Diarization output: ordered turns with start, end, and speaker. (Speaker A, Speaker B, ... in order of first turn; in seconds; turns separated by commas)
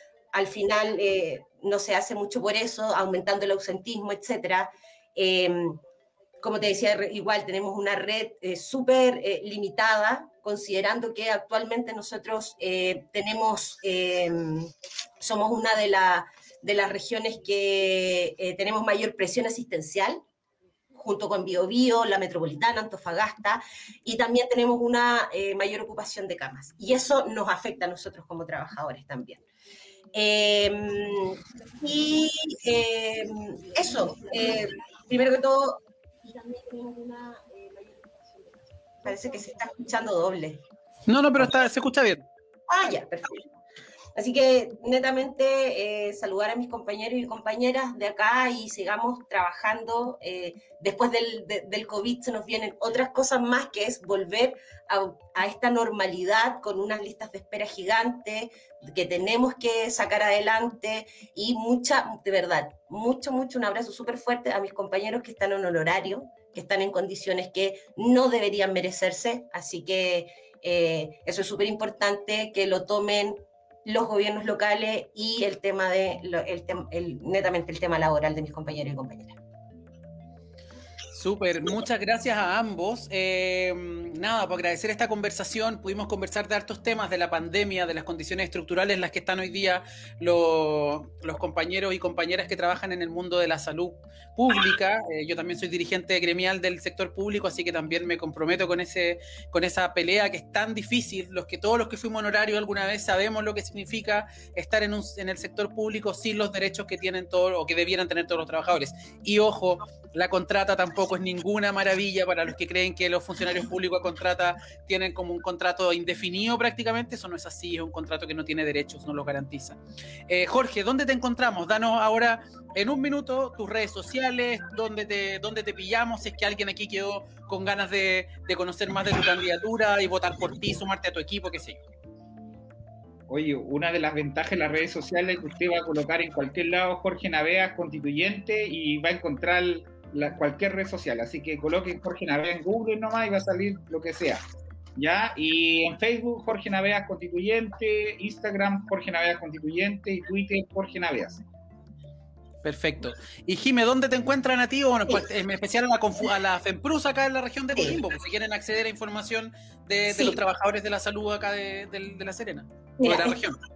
Speaker A: 0.3-5.8, Speaker A: 6.4-20.2, Speaker A: 20.9-29.4, Speaker A: 30.1-38.4, Speaker A: 39.0-40.6, Speaker B: 41.1-42.2, Speaker A: 42.7-43.5, Speaker A: 44.1-79.4, Speaker B: 81.1-131.8, Speaker C: 133.3-144.4, Speaker C: 145.0-151.4, Speaker B: 152.6-163.6, Speaker A: 160.1-160.4, Speaker A: 163.0-163.4